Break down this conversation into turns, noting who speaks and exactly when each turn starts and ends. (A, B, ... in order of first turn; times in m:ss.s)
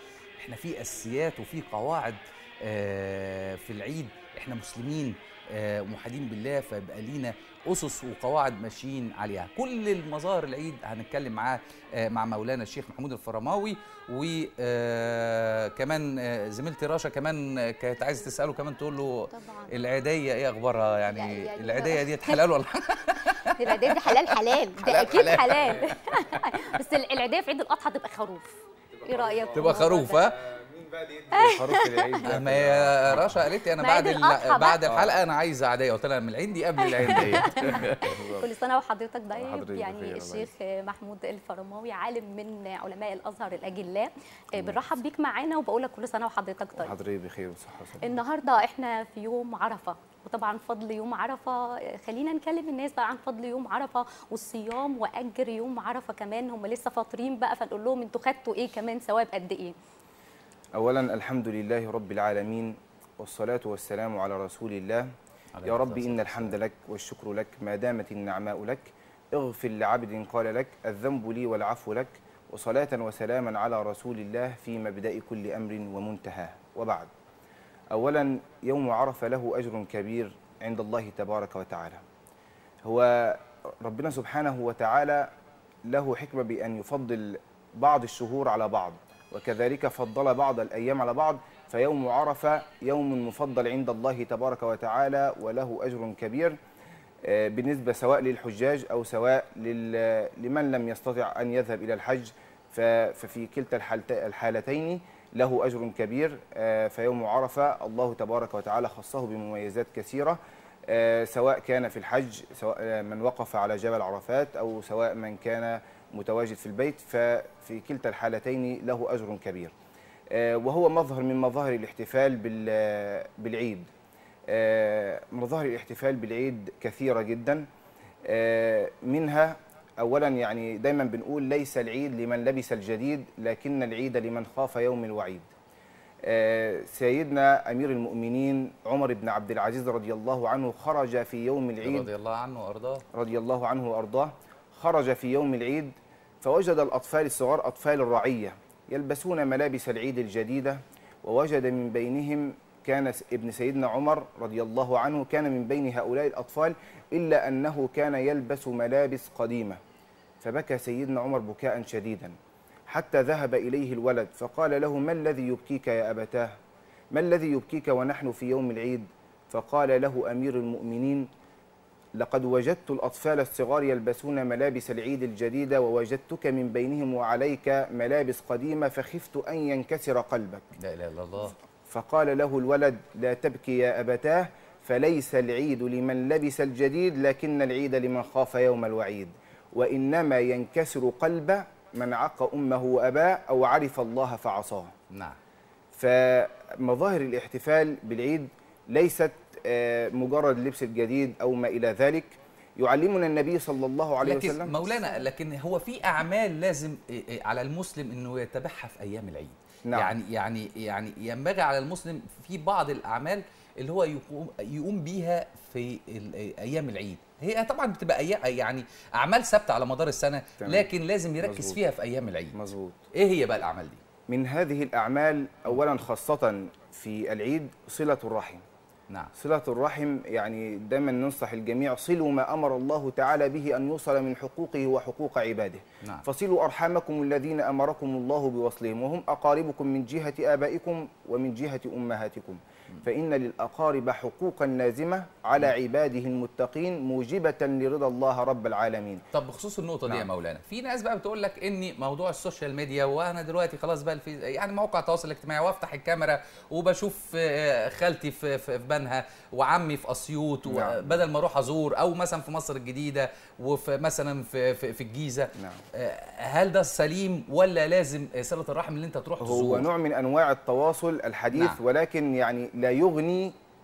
0:00.4-0:26.8 A
0:19.3-0:19.8 B
0:21.1-0:22.4 B
0:23.5-0:30.2 B
0:25.0-0:26.0 C
0:28.9-0:33.4 C
0:29.5-0:30.4 A
0:31.3-0:32.3 B
0:32.2-0:38.2 A
0:33.8-0:34.8 B
0:34.8-0:35.2 C
0:36.8-0:46.9 B
0:37.0-0:38.5 C
0:39.3-0:40.5 C
0:44.6-0:44.8 C
0:46.8-0:48.1 C
0:48.0-0:59.8 B
1:00.8-1:05.1 C
1:05.6-1:06.6 A
1:05.6-1:17.1 C
1:17.9-1:22.0 C
1:22.8-1:25.3 C
1:25.9-1:36.6 C
1:37.2-1:59.7 C
2:00.3-2:03.9 C
2:04.5-2:07.7 C
2:08.3-2:15.5 C
2:16.2-2:22.1 C
2:21.8-2:23.0 A
2:23.1-2:39.8 C
2:40.4-2:42.3 C
2:42.9-2:46.5 C
2:47.1-2:51.3 C
2:52.2-3:00.6 C
3:00.8-3:01.6 A
3:01.9-3:14.9 C
3:15.1-3:15.4 A
3:16.0-3:24.8 C
3:24.2-3:42.6 A
3:29.9-3:30.2 C
3:40.6-3:40.9 C
3:41.4-3:41.8 C
3:42.5-3:43.0 C
3:43.1-3:44.0 A
3:44.3-3:48.6 C
3:49.4-4:09.2 C
4:09.3-4:29.9 A
4:20.7-4:21.2 C
4:25.6-4:25.8 C
4:29.4-4:33.5 C
4:31.6-4:31.8 A